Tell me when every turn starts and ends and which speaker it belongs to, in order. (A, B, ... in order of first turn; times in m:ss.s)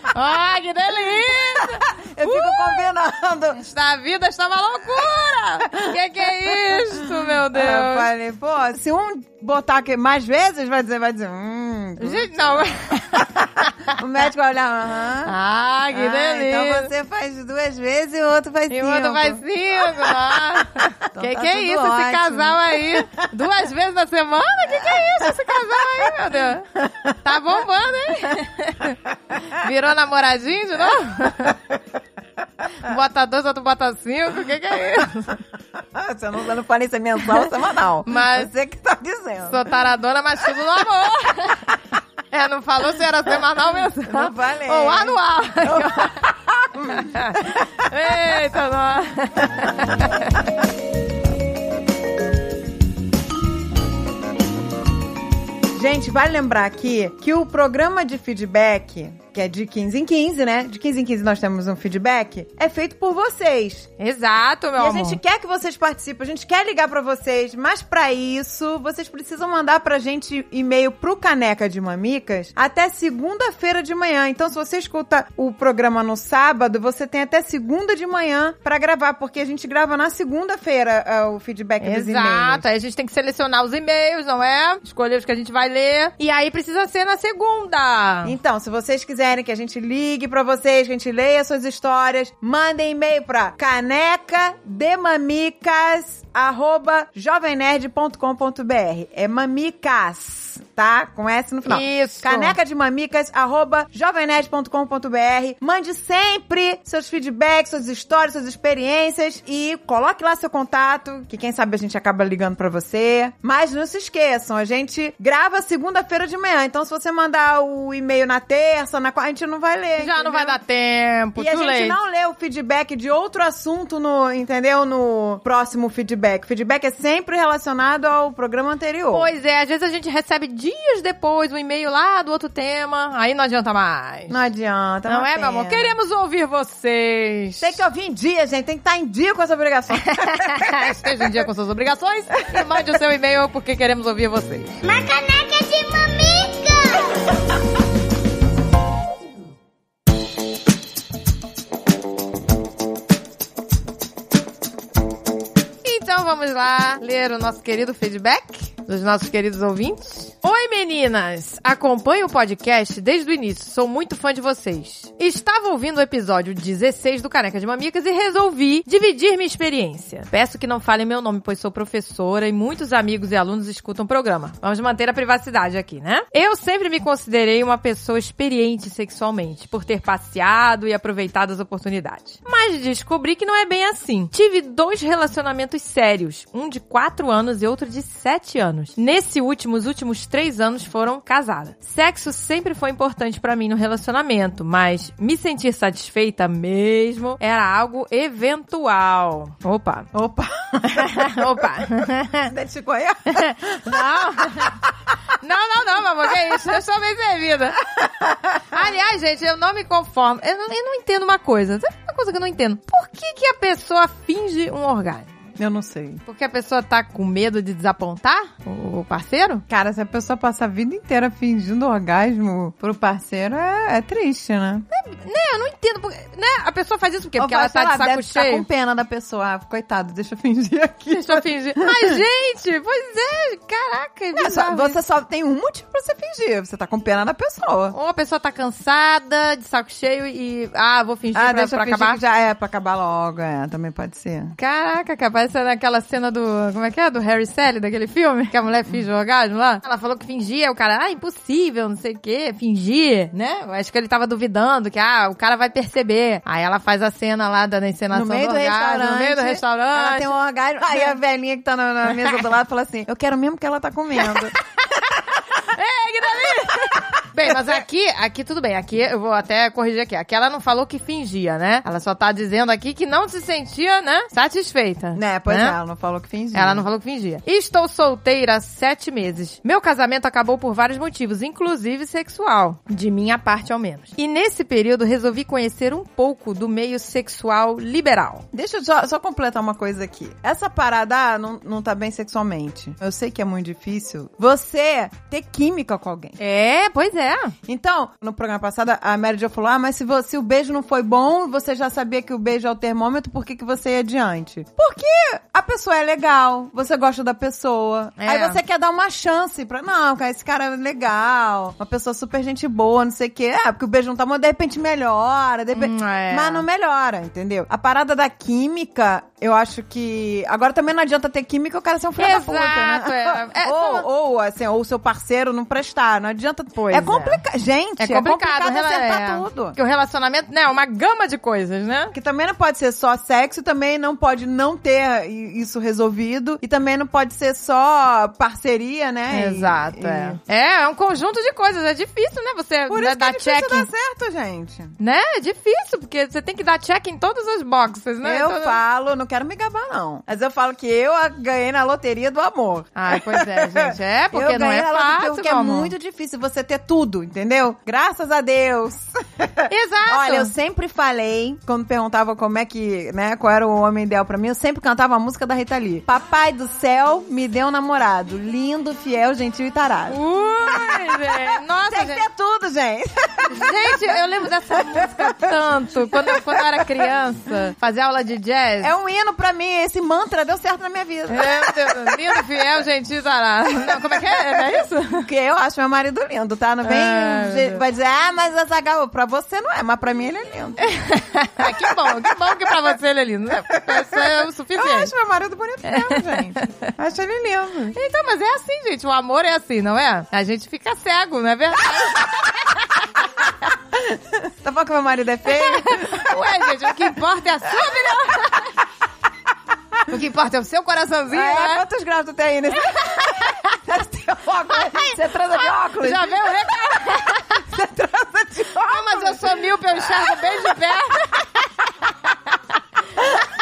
0:00.1-0:02.9 A
0:01.3-0:03.6 B
0:03.6-0:08.1 A
0:06.7-0:12.3 B
0:12.0-0:13.9 A
0:13.9-0:15.4 B
0:15.2-0:16.9 A
0:15.9-0:23.1 B
0:18.7-0:31.6 A
0:26.8-0:27.1 B
0:32.8-0:35.4 A
0:35.8-0:39.7 B
0:38.1-0:38.5 A
0:39.5-0:41.7 A
0:42.3-0:46.3 A
0:44.0-0:47.7 B
0:47.0-0:50.4 A
0:55.7-1:03.9 B
1:04.0-1:05.2 A
1:04.8-1:22.7 B
1:21.8-1:28.4 A
1:28.2-2:00.6 B
1:41.7-1:42.6 A
2:00.0-2:02.0 A
2:01.4-2:09.3 B
2:09.1-2:14.4 A
2:14.3-2:16.0 B
2:15.1-2:17.8 A
2:17.6-2:21.3 B
2:20.0-2:24.8 A
2:24.8-2:27.1 C
2:35.8-3:20.1 A
3:20.1-3:21.5 B
3:20.8-3:22.5 A
3:22.5-3:24.8 B
3:23.3-3:24.8 A
3:25.4-3:27.8 A
3:28.0-3:28.6 B
3:28.7-3:35.3 A
3:35.6-3:36.2 B
3:36.3-3:39.6 A
3:39.7-3:44.9 B
3:44.9-3:48.7 A
3:47.4-3:52.2 B
3:51.1-3:55.0 A
3:54.4-3:58.0 B
3:57.9-4:02.2 A
4:01.4-4:04.6 B
4:04.6-4:20.3 A
4:18.1-4:24.6 B
4:20.9-4:21.2 A
4:25.6-4:35.8 A
4:27.5-4:27.8 B
4:35.2-4:36.8 B
4:36.5-4:48.5 A
4:48.5-4:56.4 B
4:56.4-4:57.6 A
4:57.7-5:29.8 B
5:08.2-5:08.6 A
5:15.7-5:16.6 A
5:22.2-5:24.1 A
5:26.8-5:27.4 A
5:28.0-5:32.1 A
5:32.1-5:40.4 B
5:39.3-5:43.9 A
5:42.9-5:45.0 B
5:45.0-5:48.8 A
5:48.2-6:10.2 B
5:53.0-5:55.9 A
5:59.7-6:00.5 A
6:10.1-6:12.2 A
6:10.7-6:11.3 B
6:11.9-6:17.1 B
6:13.5-6:18.9 A
6:18.8-6:22.4 B
6:21.3-6:25.3 A
6:25.2-6:30.9 B
6:26.8-6:27.8 A
6:30.8-6:35.1 A
6:33.9-6:38.0 B
6:35.9-6:36.7 A
6:37.9-6:43.4 A
6:43.9-6:46.4 B
6:45.5-6:48.8 A
6:50.1-6:51.8 A
6:51.3-6:56.9 B
6:53.1-6:53.6 A
6:54.7-6:57.6 A
6:57.5-7:00.8 B
6:58.8-7:01.5 A